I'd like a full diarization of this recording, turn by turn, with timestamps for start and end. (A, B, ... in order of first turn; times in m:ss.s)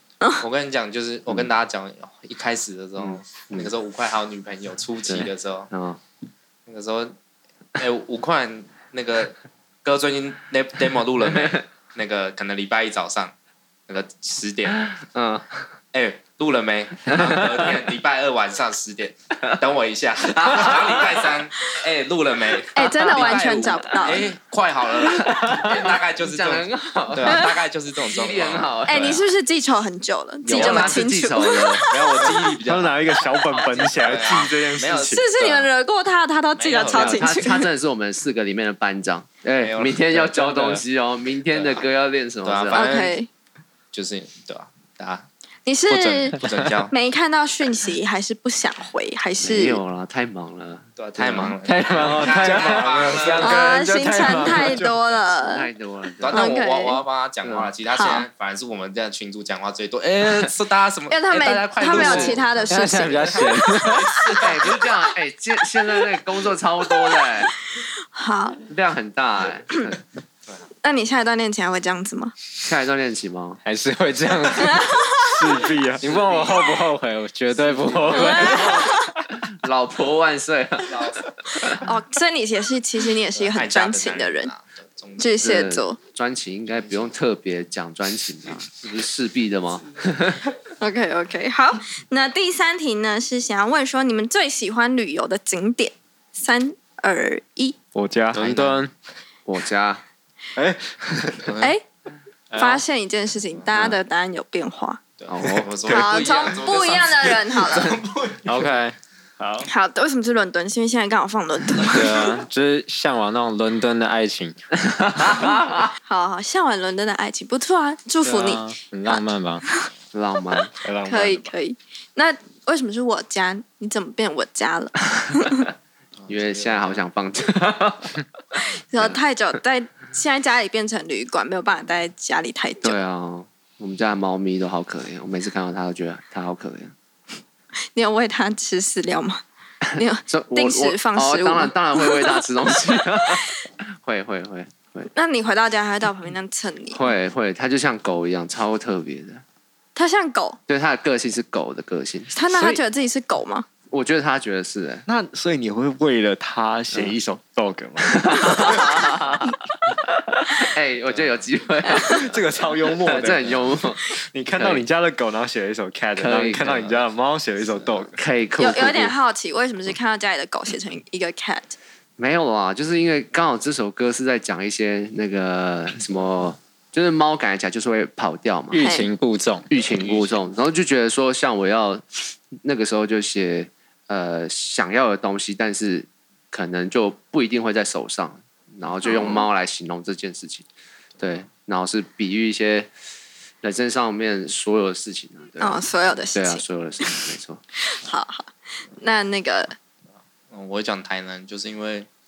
0:00.4-0:05.7 A
0:03.0-0:03.7 B
0:05.0-0:06.0 B
0:06.7-0:07.1 A
0:07.8-0:13.3 A
0:11.2-0:11.6 B
0:13.9-0:14.9 A
0:15.0-0:15.7 B
0:15.9-0:29.2 A
0:17.1-0:17.4 B
0:20.3-0:21.2 B
0:22.7-0:24.3 C
0:23.0-0:23.8 B
0:25.0-0:29.2 B
0:28.8-0:32.5 C
0:30.4-0:33.2 A
0:30.4-0:31.9 B
0:32.6-0:35.2 D
0:33.5-0:34.2 B
0:33.9-0:35.7 A
0:35.1-0:37.7 C
0:36.6-0:37.4 A
0:36.9-0:42.9 B
0:39.6-0:40.7 A
0:41.5-0:41.8 A
0:42.4-0:43.2 A
0:42.7-0:43.3 C
0:43.9-0:45.3 A
0:45.6-0:49.8 C
0:45.9-0:46.9 A
0:49.4-0:51.5 B
0:51.0-0:53.6 A
0:51.6-0:54.9 E
0:52.0-0:53.6 D
0:53.4-0:55.7 C
0:55.4-0:56.5 B
0:56.2-1:04.4 A
0:56.3-0:57.0 C
0:57.4-0:57.7 B
0:57.9-0:58.2 C
1:01.1-1:03.5 C
1:01.3-1:02.4 B
1:02.7-1:04.2 E
1:04.3-1:07.5 B
1:06.9-1:08.6 C
1:08.7-1:10.0 B
1:10.8-1:12.3 C
1:12.6-1:13.6 B
1:13.6-1:15.1 E
1:14.6-1:15.4 C
1:15.2-1:16.0 D
1:16.0-1:18.9 E
1:16.0-1:16.8 A
1:18.1-1:19.0 C
1:19.5-1:21.2 B
1:20.8-1:21.8 A
1:21.7-1:24.5 C
1:23.3-1:25.4 A
1:25.2-1:26.0 C
1:25.4-1:30.5 B
1:26.8-1:27.1 A
1:30.8-1:37.8 C
1:37.9-1:38.4 D
1:38.3-1:38.9 E
1:39.4-1:40.0 B
1:40.6-1:41.5 D
1:41.4-1:41.7 A
1:42.5-1:42.8 E
1:42.5-1:45.0 C
1:45.2-1:48.4 A
1:45.3-1:46.0 B
1:45.8-1:48.0 C
1:48.4-1:48.9 E
1:49.4-1:49.7 D
1:49.6-1:52.3 C
1:51.9-1:54.5 E
1:54.9-1:55.6 B
1:56.0-1:59.9 C
1:58.2-1:59.6 E
2:00.1-2:00.7 B
2:00.8-2:01.4 E
2:01.0-2:05.7 C
2:06.2-2:07.0 A
2:06.3-2:08.2 B
2:08.9-2:13.0 C
2:12.8-2:16.9 B
2:17.9-2:19.4 C
2:19.9-2:22.4 C
2:20.3-2:25.1 B
2:25.1-2:27.0 C
2:26.9-2:29.4 B
2:30.0-2:30.6 C
2:30.7-2:32.3 B
2:32.3-2:33.6 C
2:33.9-2:35.0 B
2:35.0-2:39.3 D
2:38.0-2:39.4 B
2:40.6-2:44.0 B
2:41.8-2:42.2 C
2:42.2-2:48.2 D
2:44.5-2:44.8 B
2:46.2-2:47.0 B
2:47.8-2:49.1 B
2:48.6-2:51.8 C
2:52.2-2:58.8 B
2:58.7-2:59.7 E
2:58.8-2:59.1 C
2:59.7-3:10.6 B
2:59.8-3:00.3 A
3:09.0-3:09.5 C
3:11.2-3:12.9 B
3:13.6-3:17.6 B
3:15.6-3:17.3 C
3:17.8-3:19.7 C
3:20.5-3:22.1 A